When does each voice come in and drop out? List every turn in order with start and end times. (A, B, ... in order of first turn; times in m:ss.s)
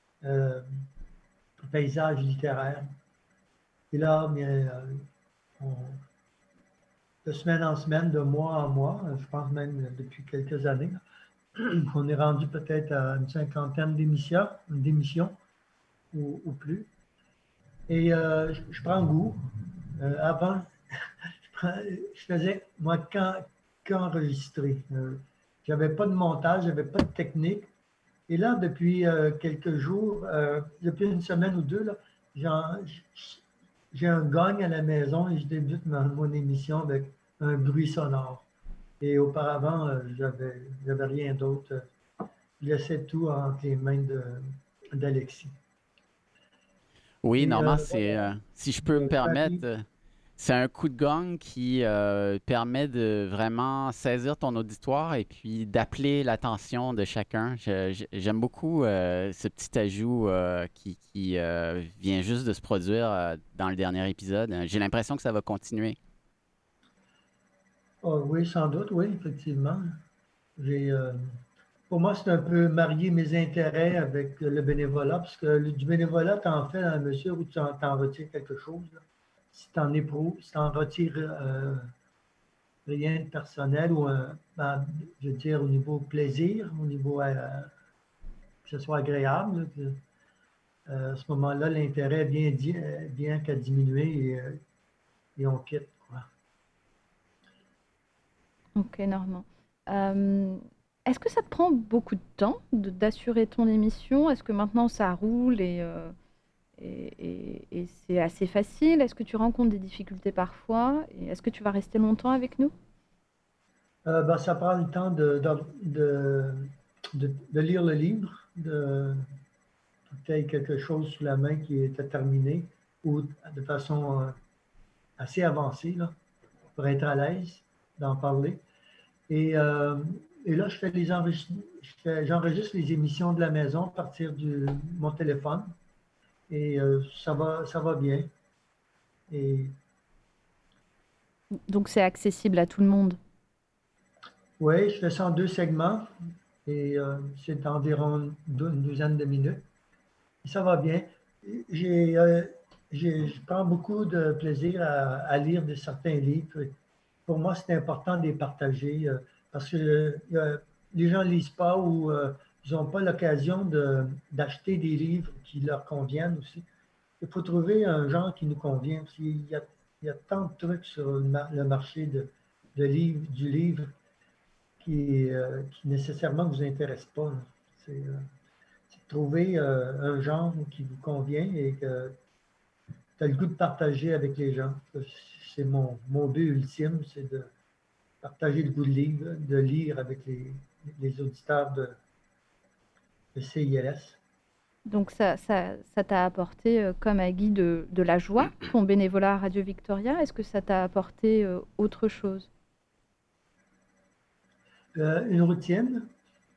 0:00.2-0:00.6 A
0:01.7-0:02.9 A
0:03.9-0:05.0 A
0:05.6-0:06.0 A
0:07.2-0:11.0 A
0:11.6-0:15.4 A
0:16.1-0:16.9 A
0:17.9-0:19.4 A
0:20.0-0:20.7 A
0:21.5-0:27.7 A
0:28.3-0:38.5 A
0:39.0-0:41.8 A
0:42.6-0:45.5 A
0:47.2-0:49.8 B
0:47.4-0:48.2 A
0:48.8-0:49.6 A
0:50.4-1:06.0 B
1:08.0-1:10.0 A
1:10.6-1:11.2 A
1:11.9-1:19.0 A
1:19.5-1:21.8 A
1:22.8-1:27.7 A
1:28.6-1:30.0 A
1:30.9-1:34.6 A
1:35.4-1:36.3 A
1:38.8-1:46.1 C
1:46.8-1:52.7 C
1:54.0-1:59.2 A
2:00.1-2:04.3 A
2:05.2-2:06.1 A
2:06.8-2:08.6 A
2:09.3-2:15.7 A
2:16.5-2:18.3 A
2:19.3-2:19.8 A
2:21.7-2:23.2 C
2:24.6-2:26.1 A
2:26.6-2:29.6 A
2:30.4-2:36.7 A
2:37.3-2:46.6 A
2:47.2-2:53.9 A
2:54.8-2:58.2 A
2:58.9-3:02.2 A
3:03.2-3:07.5 A
3:08.2-3:12.0 A
3:13.3-3:14.2 A
3:14.9-3:22.5 C
3:24.9-3:26.1 A